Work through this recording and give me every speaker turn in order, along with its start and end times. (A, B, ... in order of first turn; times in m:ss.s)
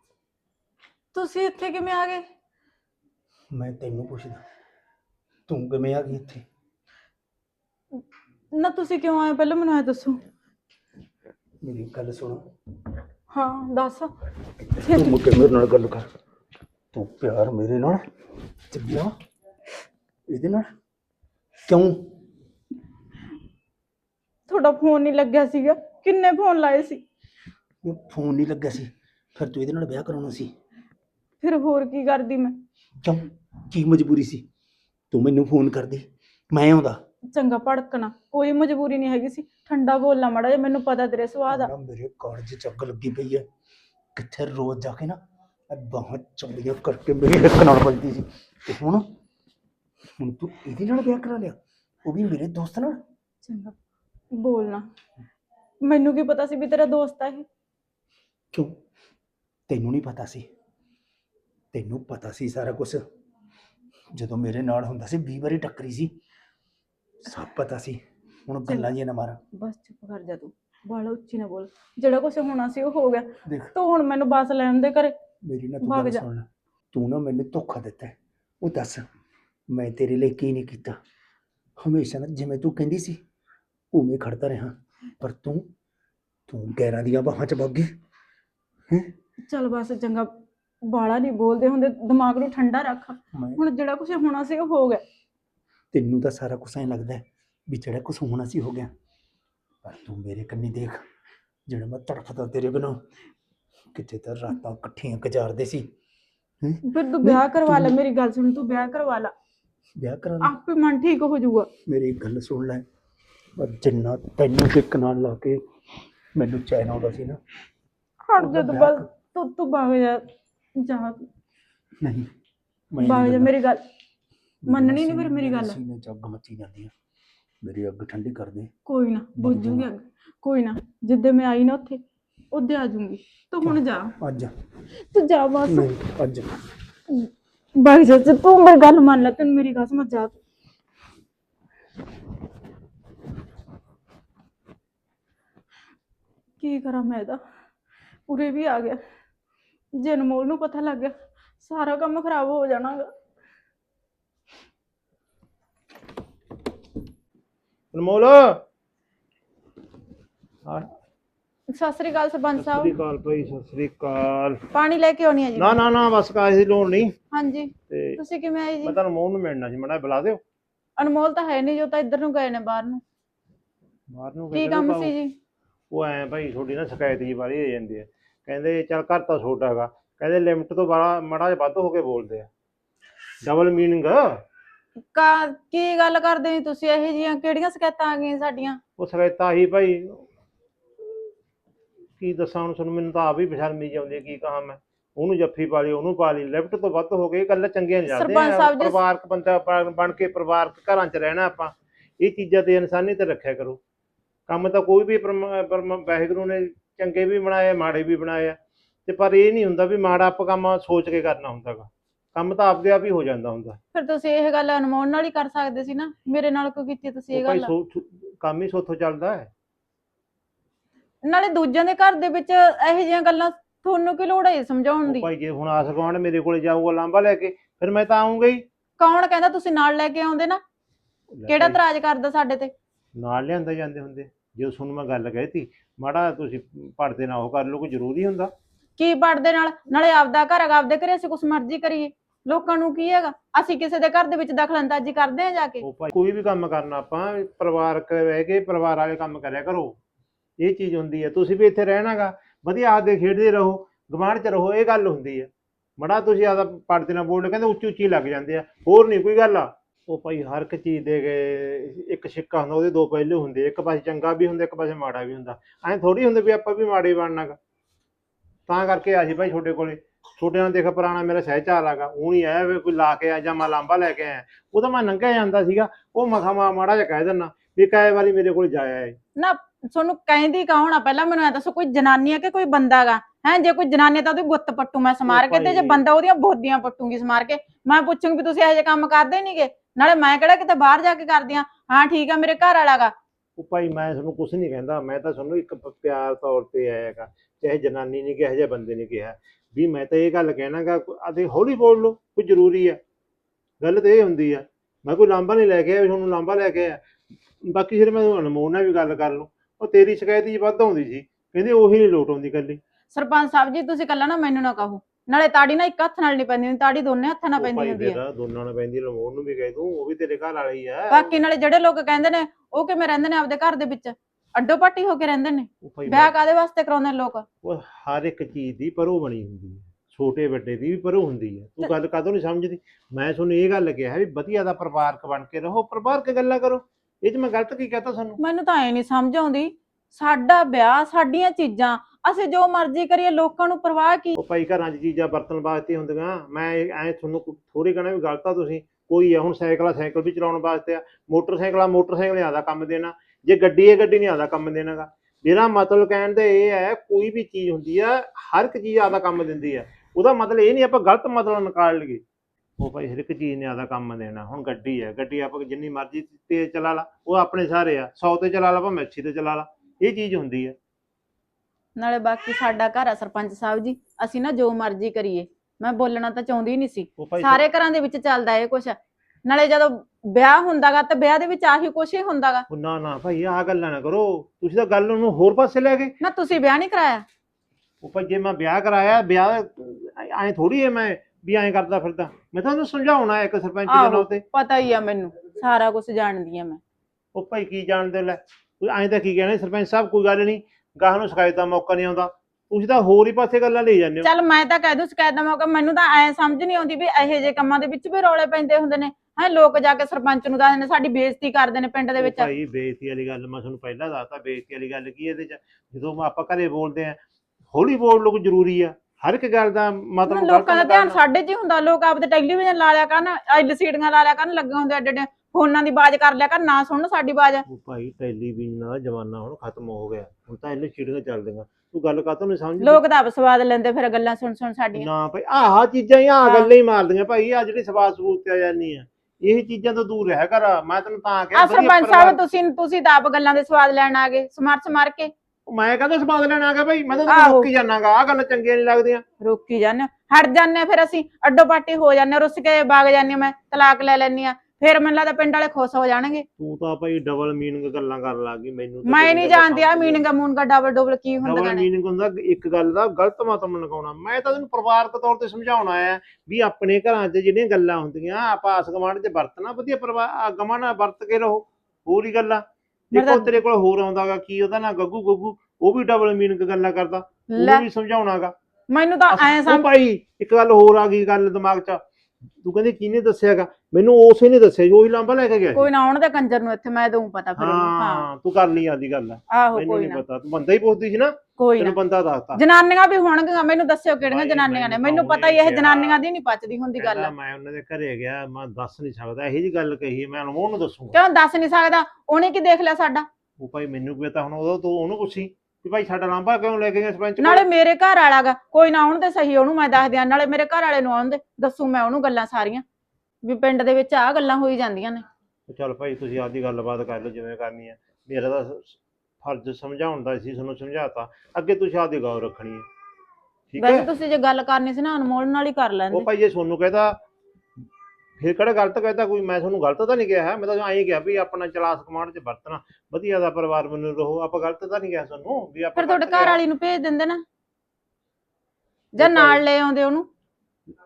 0:01.1-0:02.2 A
0:03.5-0:04.4 B
0:05.5-0:06.4 B
0:08.5-0:10.2 A
0:11.6-0:12.4 B
0:13.3-0:14.1 A
0:14.8-0:16.1 B
0:14.8-0:15.2 A
0:16.9-0:18.0 B
0:18.7-0:19.2 B
0:20.3-0:20.7 B
0:21.7-0:22.0 B
0:24.5-0:27.0 A
0:27.8-0:30.5 B
0:31.4-0:32.6 A
0:33.0-0:34.4 B
0:35.1-0:37.0 B
0:37.3-0:41.7 A
0:41.5-0:43.5 B
0:44.2-0:45.2 B
0:45.7-0:49.0 B
0:50.2-0:53.0 B
0:53.4-0:53.7 A
0:54.3-0:54.9 A
0:55.8-0:57.5 A
0:59.7-1:00.5 B
1:01.7-1:03.0 B
1:04.1-1:06.1 B
1:07.2-1:09.4 B
1:09.5-1:15.2 A
1:13.5-1:13.7 B
1:15.4-1:19.1 B
1:15.8-1:16.2 A
1:19.7-1:21.0 B
1:21.8-1:23.2 B
1:23.9-1:25.7 B
1:26.5-1:27.9 B
1:29.5-1:30.3 A
1:30.8-1:35.0 A
1:33.3-1:33.6 B
1:35.9-1:38.9 B
1:39.8-1:41.0 B
1:41.7-1:43.0 B
1:43.9-1:45.9 B
1:46.6-1:48.0 B
1:46.9-1:49.3 A
1:50.0-1:50.6 B
1:50.4-1:51.7 A
1:51.9-1:52.8 B
1:53.6-1:55.6 B
1:56.4-1:57.4 B
1:58.3-2:00.2 A
1:58.4-1:59.1 B
2:00.8-2:01.2 A
2:02.0-2:02.3 B
2:02.9-2:03.5 B
2:03.0-2:03.8 A
2:04.6-2:06.9 B
2:04.7-2:05.8 A
2:07.6-2:08.7 B
2:08.9-2:12.0 A
2:09.4-2:09.9 B
2:12.5-2:14.1 A
2:13.6-2:14.5 B
2:15.1-2:15.9 A
2:15.7-2:16.5 B
2:17.1-2:20.4 A
2:26.6-2:27.4 A
2:28.3-2:29.0 A
2:30.0-2:33.1 A
2:37.9-2:38.6 C
2:41.7-2:43.0 A
2:42.6-2:44.6 C
2:44.7-2:45.8 A
2:45.6-2:47.2 C
2:47.3-2:49.0 A
2:47.9-2:48.2 C
2:48.8-2:50.4 C
2:51.0-2:53.0 A
2:54.1-2:55.1 C
2:54.5-2:55.3 A
2:55.9-3:02.5 C
3:03.4-3:04.3 C
3:05.1-3:08.8 A
3:09.0-3:10.2 C
3:12.2-3:23.8 C
3:18.1-3:19.0 A
3:24.5-3:33.8 C
3:33.9-3:37.7 A
3:37.3-3:39.5 C
3:41.2-3:45.3 A
3:45.0-3:48.6 C
3:49.0-3:50.6 A
3:51.3-3:51.8 C
3:51.5-3:52.7 A
3:53.2-3:58.5 C
3:59.0-4:05.8 A
4:05.8-4:10.0 C
4:10.6-4:27.6 C
4:28.7-4:39.2 C
4:39.4-4:53.1 A
4:45.3-4:46.0 C
4:53.6-5:03.0 C
5:03.8-5:07.0 C
5:07.6-5:12.8 C
5:13.1-5:18.2 A
5:17.6-5:21.3 C
5:21.1-5:27.4 A
5:25.8-5:26.3 C
5:27.6-5:38.4 C
5:38.4-5:44.4 A
5:44.4-6:02.2 C
6:02.8-6:10.8 C
6:12.0-6:22.7 A
6:17.2-6:17.6 C
6:22.7-6:26.1 C
6:26.2-6:27.2 A
6:28.0-6:34.4 C
6:33.9-6:36.8 A
6:37.4-6:44.3 C
6:44.2-6:52.5 A
6:52.2-6:57.2 C
6:57.7-7:01.2 C
7:00.3-7:07.6 A
7:07.7-7:13.0 C
7:12.8-7:15.1 A
7:15.0-7:22.4 C
7:16.4-7:16.7 A
7:21.6-7:25.3 A
7:25.7-7:29.2 C
7:27.3-7:27.7 A
7:29.4-7:36.5 A
7:36.6-7:40.2 C
7:39.1-7:41.9 A
7:41.4-7:58.5 C
7:53.1-7:53.6 A
7:57.5-7:57.8 A
7:58.9-7:59.9 A
7:59.3-8:02.0 C
8:02.6-8:05.9 C
8:05.8-8:08.2 A
8:07.6-8:12.6 C
8:09.5-8:10.2 A
8:11.6-8:12.0 A
8:12.6-8:17.3 A
8:14.2-8:16.2 C
8:17.0-8:21.2 C
8:21.2-8:23.3 A
8:23.6-8:27.6 C
8:27.4-8:32.8 A
8:33.4-8:35.2 A
8:35.7-8:42.9 C
8:43.7-8:44.1 C
8:43.8-8:46.3 A
8:46.1-8:47.2 C
8:48.4-8:56.6 C
8:56.0-8:57.4 A
8:59.2-9:00.3 A
8:59.2-8:59.6 C